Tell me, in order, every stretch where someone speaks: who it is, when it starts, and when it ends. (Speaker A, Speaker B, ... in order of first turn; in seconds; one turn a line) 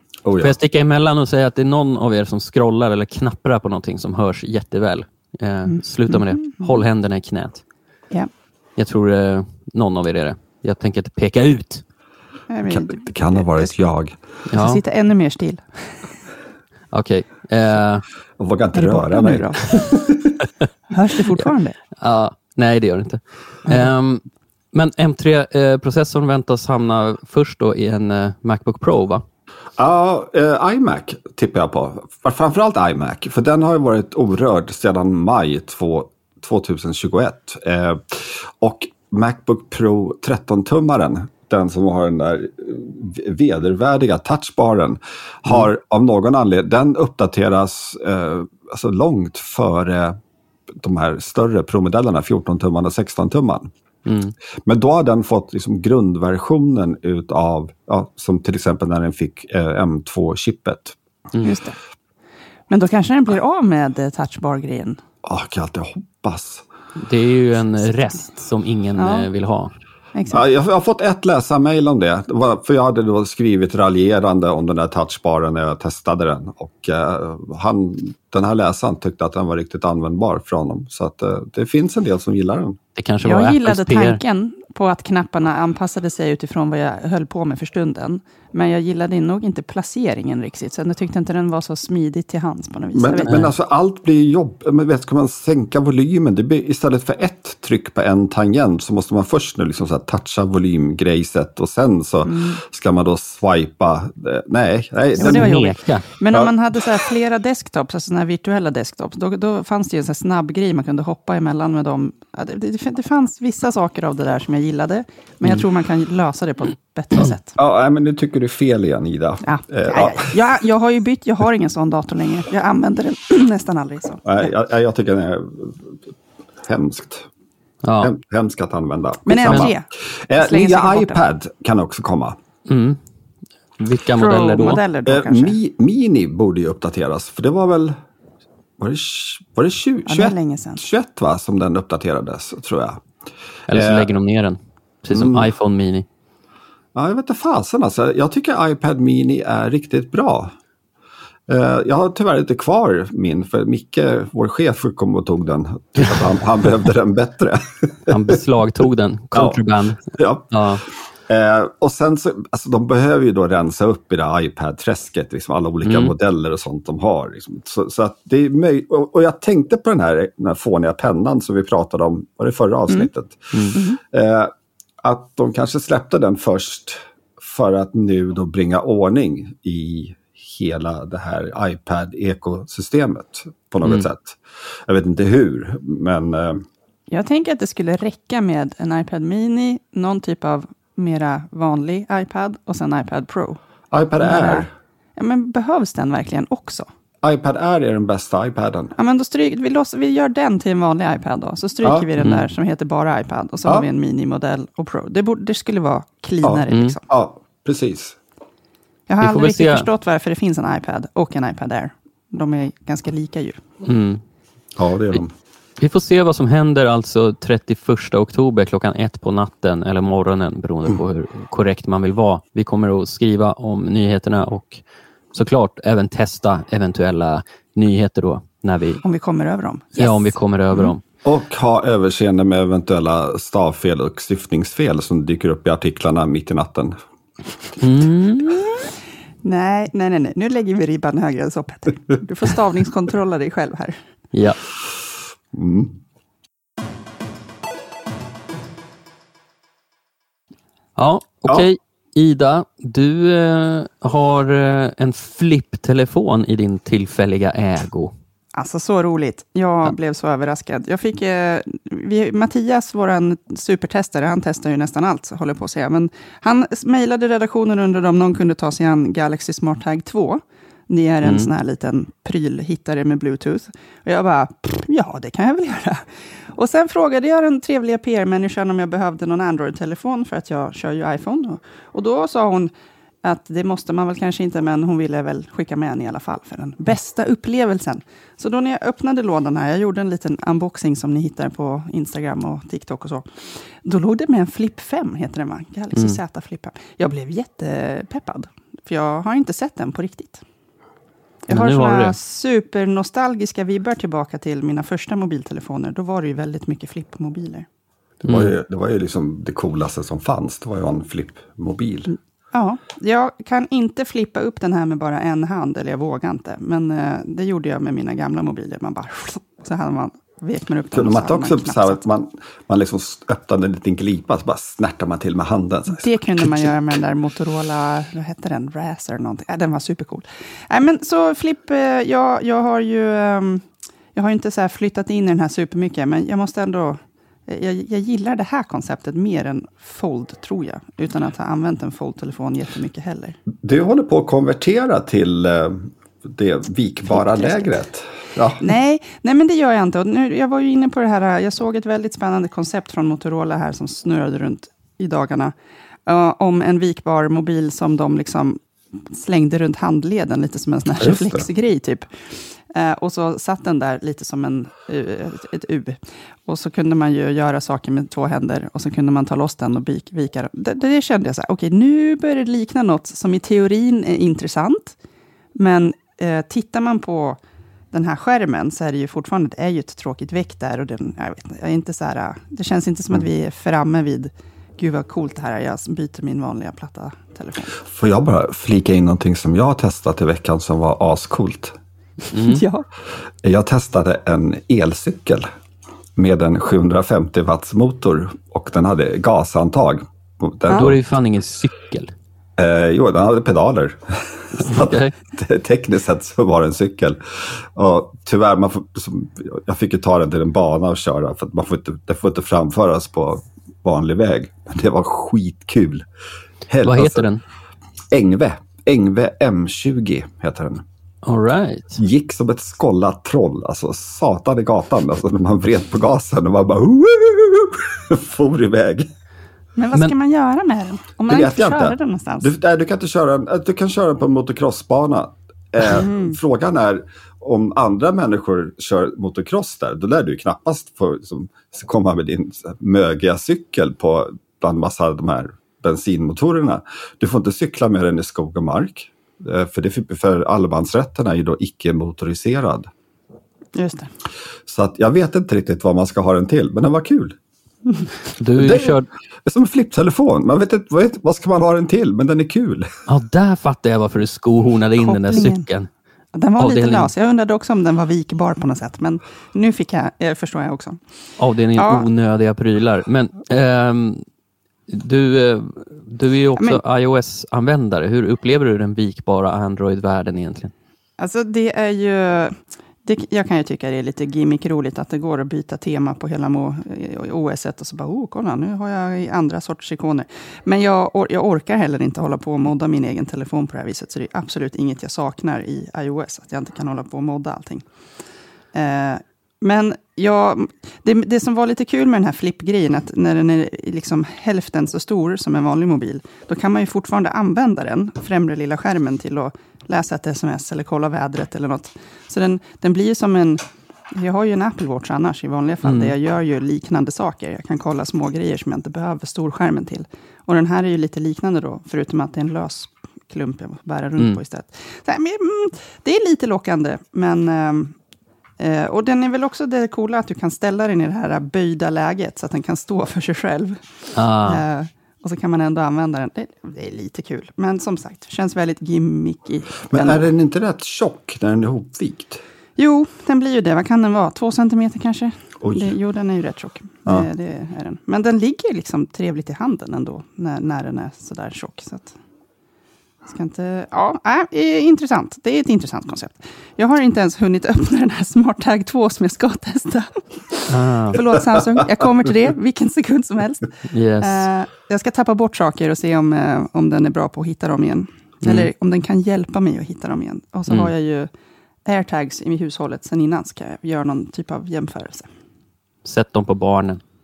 Speaker A: 0.2-0.5
Speaker B: 0.4-7.6
Speaker C: 5.7-6.8
Speaker B: 8.8-11.8
Speaker C: 12.5-13.7
Speaker A: 12.7-14.2
Speaker B: 14.5-14.8
Speaker C: 14.5-16.0
Speaker B: 16.9-18.0
Speaker A: 18.4-20.4
Speaker C: 18.7-19.8
Speaker C: 20.9-21.8
Speaker B: 22.0-29.2
Speaker A: 29.8-50.2
Speaker A: 50.8-53.7
Speaker B: 54.0-54.3
Speaker A: 54.6-61.0
Speaker C: 61.4-61.8
Speaker C: 62.7-65.0
Speaker A: 65.2-66.6
Speaker B: 67.0-69.7
Speaker C: 69.0-69.3
Speaker C: 70.1-70.4
Speaker A: 70.3-82.8
Speaker B: 83.0-84.2
Speaker C: 83.2-93.5
Speaker A: 92.9-105.6
Speaker C: 102.2-102.6
Speaker B: 105.2-106.1
Speaker C: 105.2-117.6
Speaker A: 117.6-120.4
Speaker C: 119.4-124.5
Speaker A: 124.2-126.0
Speaker A: 126.6-127.3
Speaker B: 127.8-128.1
Speaker A: 128.0-132.4
Speaker C: 129.2-131.2
Speaker B: 129.4-129.7
Speaker B: 132.7-133.0
Speaker B: 133.8-134.8
Speaker C: 134.2-135.6
Speaker A: 135.1-137.9
Speaker A: 138.8-143.0
Speaker C: 140.1-140.8
Speaker B: 143.7-146.1
Speaker A: 143.7-144.1
Speaker A: 145.1-145.5
Speaker A: 146.9-150.5
Speaker A: 151.5-158.4
Speaker B: 158.1-160.8
Speaker A: 159.3-174.5
Speaker B: 165.8-166.1
Speaker A: 175.0-186.6
Speaker C: 187.1-193.6
Speaker A: 193.9-194.7
Speaker C: 194.2-196.9
Speaker A: 197.2-198.9
Speaker C: 199.0-207.0
Speaker A: 201.8-202.1
Speaker B: 202.2-202.4
Speaker A: 206.4-208.2
Speaker B: 206.7-207.0
Speaker C: 209.1-213.6
Speaker B: 209.2-209.9
Speaker B: 213.8-214.2
Speaker A: 214.8-215.3
Speaker B: 215.8-229.0
Speaker C: 229.0-230.9
Speaker B: 230.0-231.0
Speaker A: 231.2-236.9
Speaker B: 237.8-238.7
Speaker C: 239.4-244.0
Speaker B: 244.3-244.6
Speaker A: 245.5-245.9
Speaker B: 251.0-258.1
Speaker C: 258.5-282.7
Speaker B: 271.2-271.5
Speaker C: 283.2-300.4
Speaker B: 295.9-296.2
Speaker C: 301.5-307.6
Speaker B: 301.5-302.1
Speaker A: 308.2-312.1
Speaker B: 308.3-308.5
Speaker C: 312.5-322.0
Speaker A: 320.9-327.0
Speaker C: 325.9-343.4
Speaker A: 343.6-348.6
Speaker C: 347.1-347.8
Speaker C: 348.6-355.5
Speaker C: 356.1-375.0
Speaker A: 361.0-361.4
Speaker C: 375.5-377.4
Speaker C: 377.9-387.8
Speaker A: 387.8-391.8
Speaker B: 392.3-392.6
Speaker C: 392.4-392.9
Speaker A: 393.4-395.5
Speaker A: 396.1-401.0
Speaker B: 400.7-402.1
Speaker A: 402.6-416.0
Speaker B: 404.5-405.1
Speaker A: 416.7-417.2
Speaker B: 416.8-417.4
Speaker A: 418.1-420.8
Speaker B: 421.2-422.0
Speaker A: 422.0-429.1
Speaker C: 429.8-432.5
Speaker A: 431.3-452.9
Speaker C: 435.9-436.4
Speaker C: 453.8-454.1
Speaker A: 454.7-457.4
Speaker B: 458.4-459.1
Speaker A: 458.6-462.9
Speaker B: 463.1-465.9
Speaker C: 465.0-465.6
Speaker C: 466.3-471.0
Speaker B: 466.6-467.1
Speaker B: 471.4-474.2
Speaker C: 471.8-472.1
Speaker B: 474.9-480.7
Speaker C: 481.2-497.9
Speaker C: 498.7-528.0
Speaker B: 515.9-516.1
Speaker C: 528.6-533.9
Speaker B: 534.1-534.6
Speaker C: 534.4-540.2
Speaker A: 539.9-542.4
Speaker C: 542.8-552.1
Speaker A: 545.6-545.9
Speaker C: 553.3-563.7
Speaker B: 560.7-561.2
Speaker B: 563.9-564.5
Speaker C: 564.2-571.3
Speaker B: 568.4-568.7
Speaker C: 571.9-575.3
Speaker B: 576.0-577.0